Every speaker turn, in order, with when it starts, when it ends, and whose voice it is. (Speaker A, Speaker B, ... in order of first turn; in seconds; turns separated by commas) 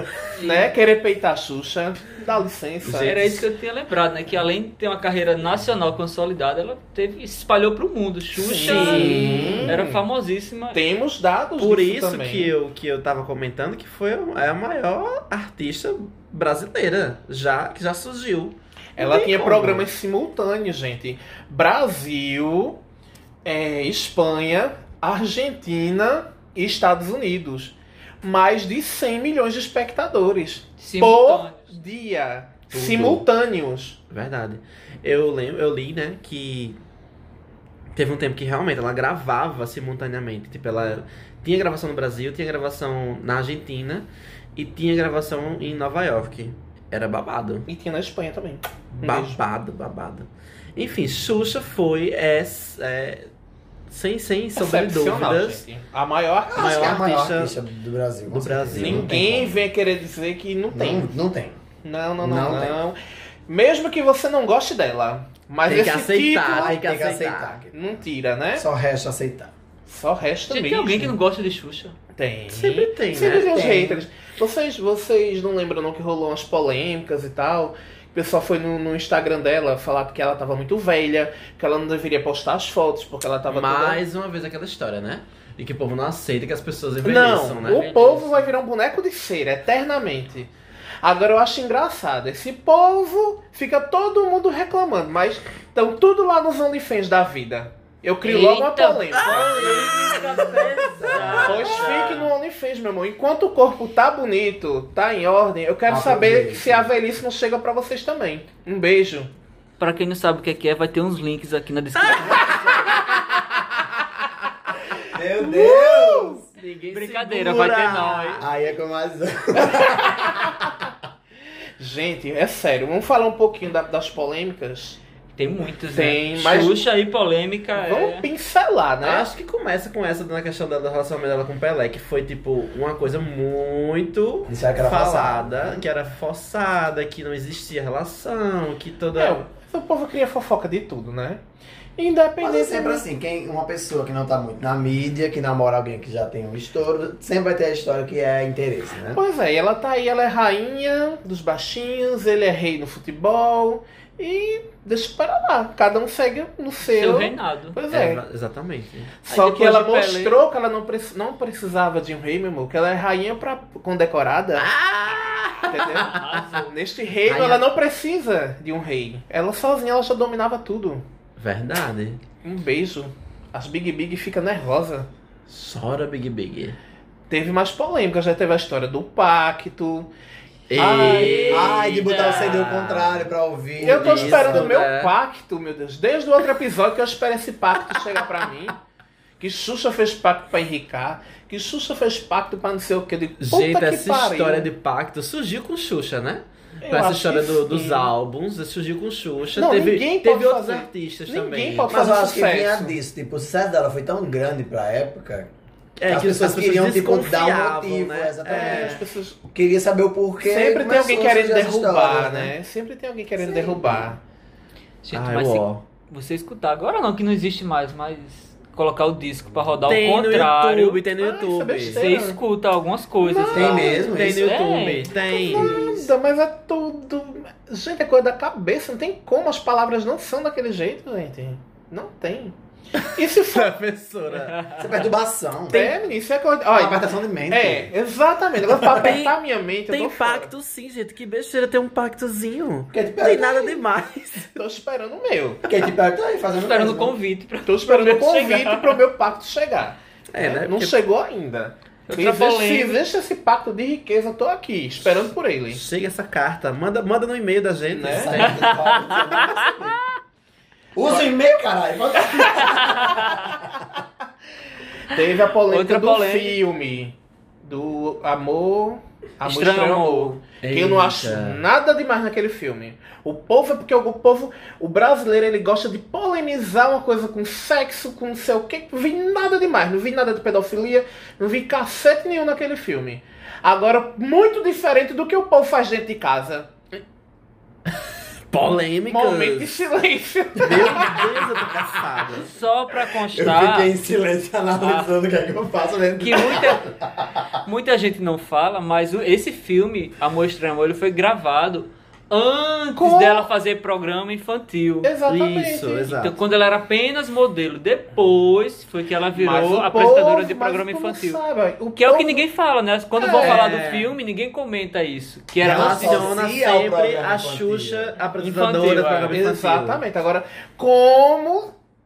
Speaker A: 0.3-0.7, Speaker B: 0.4-3.2, Speaker C: 2.9-3.4, Speaker A: 2.9-10.8, Speaker B: 8.3-10.0, Speaker C: 8.6-9.8, Speaker B: 10.7-12.5, Speaker C: 11.6-19.9, Speaker B: 19.0-22.8, Speaker B: 23.4-34.0, Speaker A: 30.8-31.7, Speaker C: 32.7-33.2, Speaker C: 34.1-36.8, Speaker C: 37.9-47.7, Speaker B: 47.7-49.4, Speaker C: 49.0-53.3, Speaker C: 53.9-55.6, Speaker B: 54.5-57.0, Speaker D: 56.4-59.5, Speaker C: 56.6-57.6, Speaker C: 58.3-59.4, Speaker B: 58.8-61.1, Speaker D: 60.7-61.6, Speaker B: 61.8-63.0, Speaker D: 62.2-62.8, Speaker B: 63.5-66.8, Speaker C: 65.7-67.6, Speaker D: 66.5-67.7, Speaker B: 67.7-68.7, Speaker D: 68.5-69.5, Speaker B: 69.8-71.2, Speaker A: 70.5-72.0, Speaker B: 72.2-84.0, Speaker C: 72.5-73.7, Speaker D: 73.5-74.0, Speaker C: 83.5-87.9, Speaker B: 87.0-99.7, Speaker A: 87.6-88.5, Speaker A: 98.2-102.3, Speaker C: 99.1-101.7, Speaker D: 100.4-101.5, Speaker B: 101.4-109.3, Speaker D: 105.9-106.9, Speaker A: 109.8-112.9, Speaker C: 111.9-114.1, Speaker D: 115.1-116.4, Speaker C: 115.4-118.4, Speaker A: 116.9-118.4, Speaker D: 118.3-120.7, Speaker B: 121.8-125.0, Speaker A: 125.3-128.2, Speaker B: 125.9-126.8, Speaker B: 127.7-129.3, Speaker C: 129.0-139.4, Speaker D: 134.4-135.8, Speaker B: 139.2-141.4, Speaker B: 142.0-143.0, Speaker D: 142.4-149.2, Speaker B: 149.1-158.2, Speaker A: 156.8-157.8, Speaker C: 157.9-159.2, Speaker B: 159.2-164.7, Speaker A: 159.3-160.4, Speaker C: 164.6-166.2, Speaker B: 165.7-171.0, Speaker A: 165.9-166.7, Speaker C: 167.3-167.6, Speaker C: 171.4-172.2, Speaker B: 172.4-175.1, Speaker C: 175.5-176.8, Speaker B: 177.3-180.1, Speaker C: 180.7-183.3, Speaker B: 180.8-181.5, Speaker A: 180.8-182.7, Speaker D: 181.0-184.7, Speaker C: 183.8-185.1, Speaker B: 183.8-188.8, Speaker B: 189.4-194.7, Speaker C: 193.4-201.9, Speaker B: 196.8-198.1, Speaker B: 199.6-202.9, Speaker D: 201.9-205.5, Speaker C: 206.0-209.0, Speaker D: 206.1-212.5, Speaker B: 208.4-209.4, Speaker B: 210.4-214.2, Speaker D: 213.4-214.0, Speaker A: 215.0-221.0, Speaker C: 215.1-215.8, Speaker C: 219.8-222.1, Speaker B: 221.2-222.4, Speaker A: 221.8-225.1, Speaker C: 223.2-225.7, Speaker D: 223.5-224.6, Speaker B: 225.2-233.7, Speaker D: 225.3-226.1, Speaker C: 233.0-234.8, Speaker D: 234.8-235.9, Speaker C: 235.7-236.0, Speaker B: 235.7-240.5, Speaker D: 236.7-237.9, Speaker C: 238.9-244.5, Speaker D: 242.9-243.8, Speaker B: 244.5-245.6, Speaker D: 245.6-247.2, Speaker A: 246.5-249.0, Speaker B: 247.6-255.8, Speaker C: 250.3-251.0, Speaker A: 252.1-253.0, Speaker C: 255.7-259.0, Speaker B: 257.9-258.4, Speaker D: 258.1-260.0, Speaker A: 258.4-259.6, Speaker D: 260.9-263.8, Speaker A: 262.6-263.5, Speaker B: 265.1-286.7, Speaker A: 265.7-266.6, Speaker A: 269.4-270.4, Speaker C: 270.6-271.6, Speaker C: 288.5-289.8, Speaker B: 289.1-291.5, Speaker C: 290.6-292.5, Speaker A: 292.3-293.9, Speaker D: 293.2-297.5, Speaker A: 294.8-295.1, Speaker A: 296.2-296.8, Speaker A: 297.6-305.1, Speaker B: 303.0-303.5, Speaker B: 305.0-306.1, Speaker C: 305.3-306.4, Speaker A: 306.1-311.4, Speaker B: 309.3-312.4, Speaker A: 312.0-316.4, Speaker B: 313.2-313.6, Speaker C: 313.4-314.1, Speaker D: 315.6-318.1, Speaker C: 315.6-320.0, Speaker A: 318.4-319.4, Speaker B: 319.3-321.7